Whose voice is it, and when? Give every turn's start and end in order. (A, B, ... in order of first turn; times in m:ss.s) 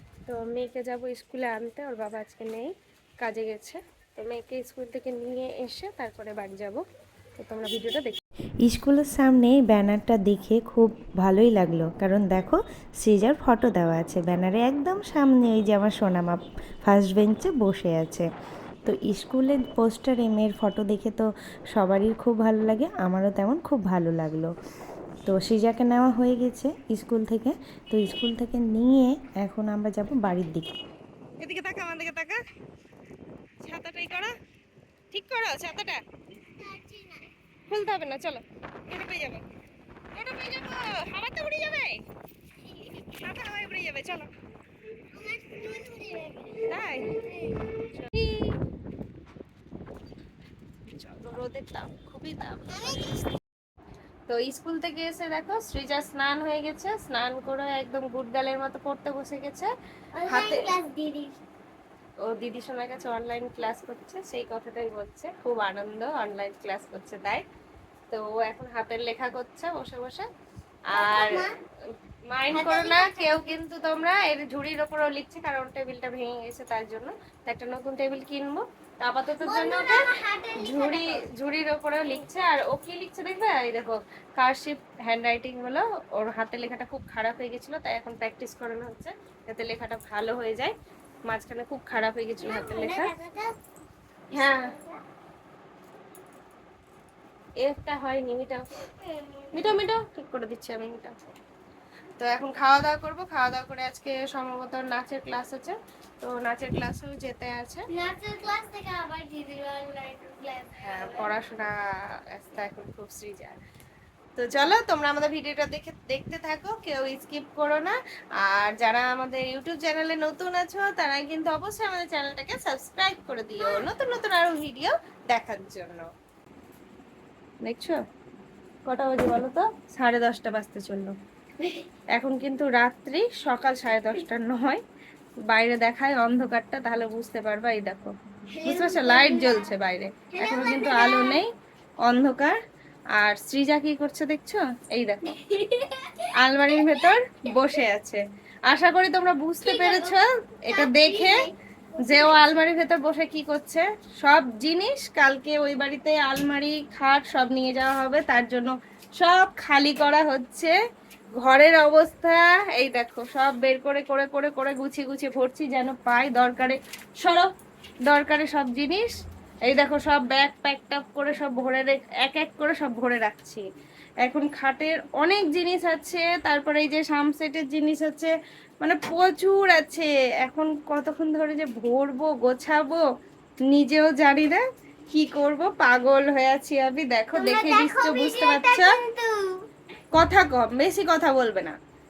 0:00.3-0:06.8 A
0:07.4-0:08.2 A
0:08.6-0:18.3 B
0:18.8-0:24.5 B
0:25.3-0:30.7 B
0:31.4-0:32.4 A
0:33.6-0:34.3 A
0:35.1-0:36.0 A
0:36.6-0:37.3 C
0:37.7-0:39.4 A
0:40.1-0:42.0 A
0:43.0-0:44.3 A
0:45.1-0:47.7 C
0:46.6-0:48.6 A
0:50.9-0:53.3 A
0:54.3-0:59.7 A
1:00.2-1:01.4 C
1:00.2-1:00.8 A
1:02.2-1:07.4 A
1:08.1-1:10.3 A
1:10.9-1:11.5 A
1:10.9-1:11.5 C
1:12.3-1:30.7 A
1:12.6-1:13.2 C
1:19.4-1:21.2 C
1:31.3-1:33.1 A
1:32.4-1:33.6 C
1:34.3-1:34.7 A
1:34.4-1:34.8 C
1:37.6-1:38.9 A
1:39.5-1:41.2 A
1:42.2-1:47.9 A
1:47.9-1:51.2 C
1:50.8-1:51.7 A
1:52.3-1:53.6 A
1:54.4-2:06.1 A
2:07.6-2:08.0 A
2:08.9-2:11.2 A
2:12.2-2:14.8 A
2:15.5-2:21.5 A
2:18.6-2:19.6 C
2:20.4-2:21.4 C
2:22.0-2:22.6 A
2:23.2-2:25.5 A
2:25.5-2:26.3 C
2:26.4-2:40.7 A
2:29.6-2:30.1 C
2:30.7-2:31.5 C
2:41.4-2:47.5 A
2:48.1-2:49.1 A
2:49.7-2:53.6 A
2:54.2-3:03.0 A
3:03.7-3:09.0 A
3:07.3-3:09.5 C
3:10.1-3:11.8 A